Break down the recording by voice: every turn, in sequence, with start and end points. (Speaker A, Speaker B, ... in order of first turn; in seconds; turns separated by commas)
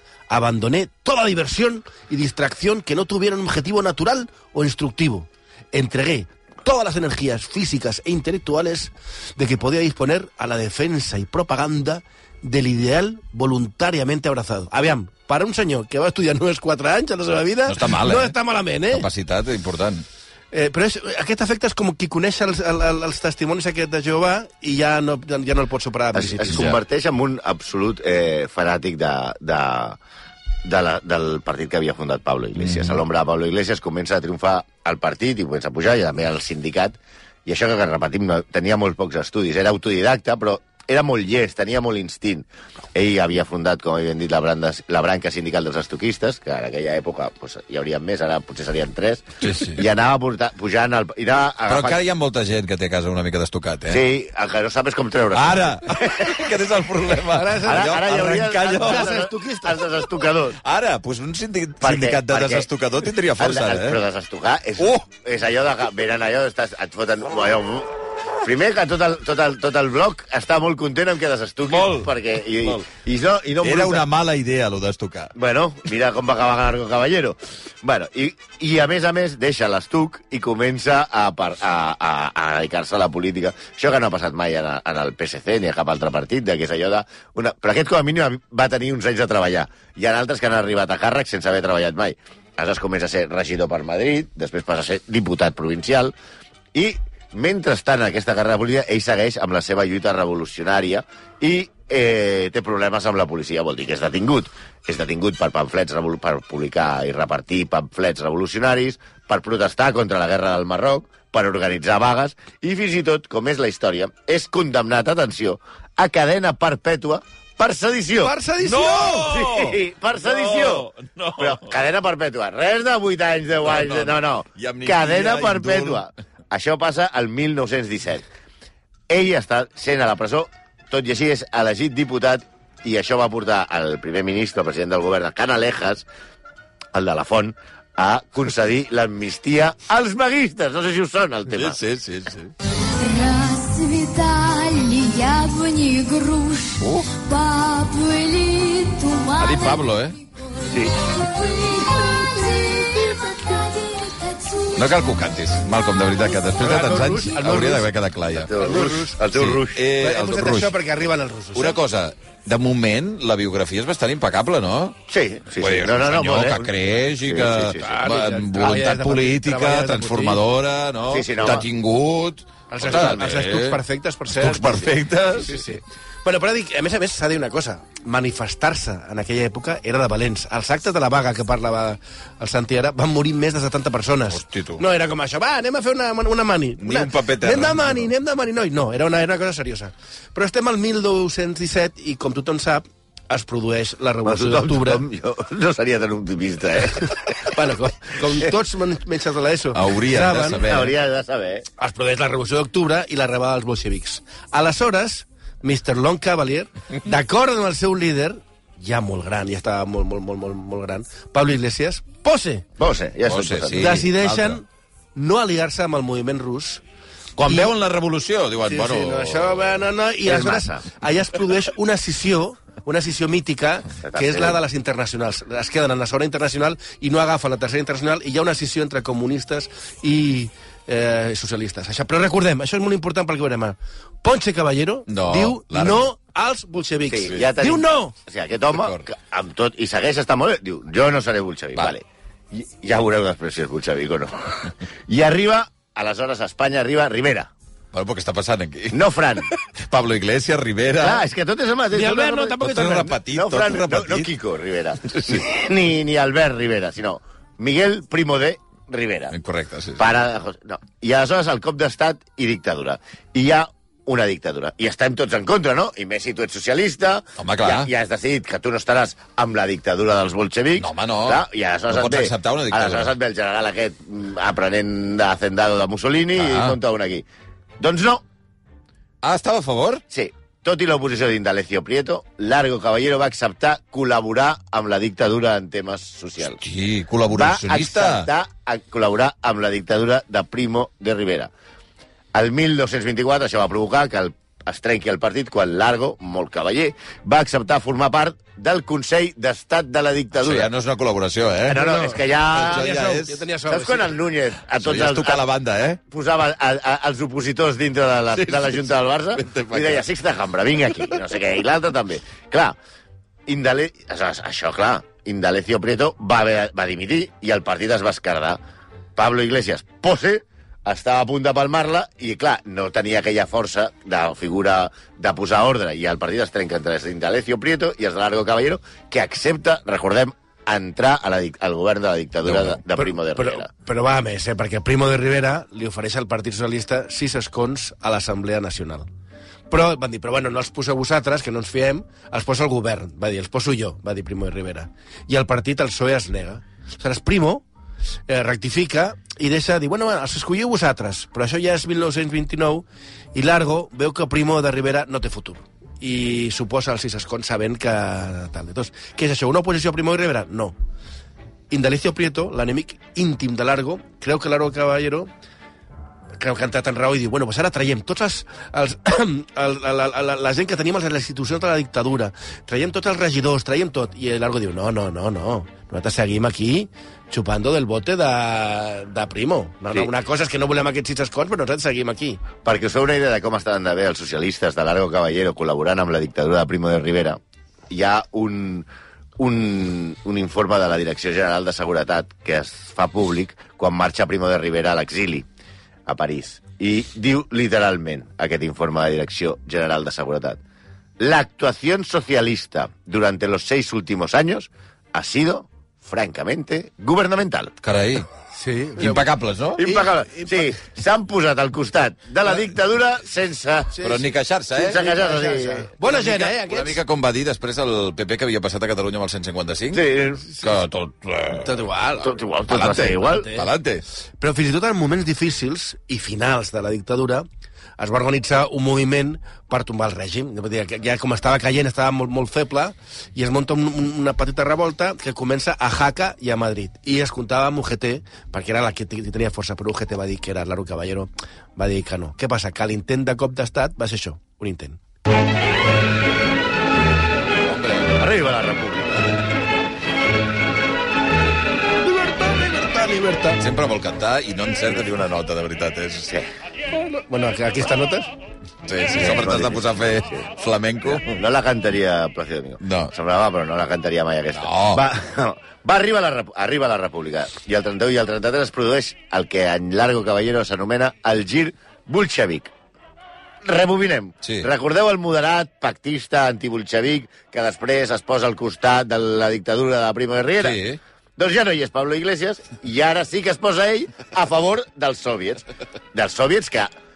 Speaker A: 0.3-19.1, Speaker B: 17.7-18.4, Speaker B: 18.9-20.0, Speaker A: 20.5-26.7, Speaker C: 26.1-30.0, Speaker B: 26.5-26.8, Speaker C: 30.6-52.0, Speaker B: 32.6-33.0, Speaker B: 49.4-49.8, Speaker B: 51.7-54.0, Speaker C: 53.9-56.5, Speaker B: 55.3-59.1, Speaker A: 57.3-59.9, Speaker C: 57.6-60.6, Speaker B: 60.6-64.0, Speaker C: 61.8-62.7, Speaker C: 63.4-74.0, Speaker B: 71.7-72.8, Speaker B: 73.6-75.3, Speaker C: 75.3-96.1, Speaker C: 96.7-118.3, Speaker A: 118.2-119.4, Speaker B: 118.6-121.8, Speaker C: 119.3-128.2, Speaker B: 123.6-126.1, Speaker C: 129.1-136.1, Speaker C: 136.9-141.8, Speaker B: 141.5-142.5, Speaker D: 142.9-155.1, Speaker B: 146.8-147.1, Speaker B: 149.4-150.2, Speaker B: 154.8-158.5, Speaker A: 156.6-157.9, Speaker C: 158.3-159.8, Speaker A: 158.5-159.2, Speaker B: 159.3-160.7, Speaker A: 160.0-161.8, Speaker B: 161.5-165.0, Speaker C: 165.1-167.9, Speaker B: 165.6-173.8, Speaker A: 167.8-170.4, Speaker C: 171.1-171.7, Speaker A: 172.7-195.0, Speaker C: 172.9-173.2, Speaker B: 174.3-175.7, Speaker B: 184.3-184.8, Speaker B: 186.8-188.1, Speaker C: 194.2-197.5, Speaker A: 197.4-200.6, Speaker B: 199.7-200.9, Speaker C: 200.6-201.7, Speaker A: 201.8-212.7, Speaker C: 212.8-214.1, Speaker B: 213.2-214.6, Speaker A: 213.7-216.8, Speaker B: 217.4-219.8, Speaker A: 217.4-217.7, Speaker A: 218.7-238.1, Speaker C: 220.2-220.8, Speaker C: 224.0-224.6, Speaker B: 235.1-236.1, Speaker C: 237.1-247.5, Speaker B: 238.7-239.0, Speaker B: 247.9-251.2, Speaker C: 248.9-249.5, Speaker C: 250.9-252.6, Speaker A: 251.9-253.2, Speaker B: 252.6-254.3, Speaker C: 253.2-259.3, Speaker B: 255.1-255.4, Speaker B: 259.3-260.0, Speaker C: 260.0-277.2, Speaker B: 267.4-267.9, Speaker B: 270.8-273.1, Speaker B: 276.4-276.8, Speaker C: 277.8-278.2, Speaker B: 279.2-280.0, Speaker C: 280.1-286.6, Speaker B: 286.6-288.3, Speaker C: 287.3-291.5, Speaker C: 292.3-300.7, Speaker B: 300.4-301.8, Speaker C: 301.7-302.9, Speaker A: 301.7-304.2, Speaker B: 302.5-303.4, Speaker C: 303.7-305.5, Speaker B: 304.8-306.0, Speaker C: 306.1-312.8, Speaker B: 308.3-310.0, Speaker C: 313.4-318.6, Speaker C: 319.1-333.7, Speaker B: 332.4-332.8, Speaker A: 332.9-339.1, Speaker A: 339.7-347.6, Speaker A: 348.3-360.7, Speaker A: 361.7-365.3, Speaker A: 366.4-382.4, Speaker C: 382.6-387.4, Speaker C: 387.9-388.9, Speaker C: 389.4-395.4, Speaker C: 396.1-400.6, Speaker C: 401.2-407.7, Speaker B: 407.8-408.3, Speaker A: 408.5-409.3, Speaker B: 409.0-409.9, Speaker C: 409.8-414.1, Speaker A: 409.8-410.7, Speaker A: 413.9-414.2, Speaker B: 414.0-415.1, Speaker C: 414.8-415.9, Speaker A: 414.9-417.0, Speaker B: 416.0-421.8, Speaker C: 419.9-420.5, Speaker A: 421.6-422.3, Speaker C: 422.2-423.5, Speaker B: 422.7-424.0, Speaker A: 423.2-423.7, Speaker A: 424.4-427.4, Speaker A: 428.0-445.0, Speaker B: 447.6-448.1, Speaker C: 448.1-449.3, Speaker A: 452.0-453.6, Speaker B: 453.6-456.4, Speaker A: 456.9-458.3, Speaker B: 458.8-461.4, Speaker C: 459.1-460.4, Speaker C: 461.0-472.7, Speaker B: 462.8-463.1, Speaker B: 464.5-465.1, Speaker C: 473.6-480.8, Speaker B: 474.4-474.7, Speaker B: 480.6-481.0, Speaker C: 481.4-486.9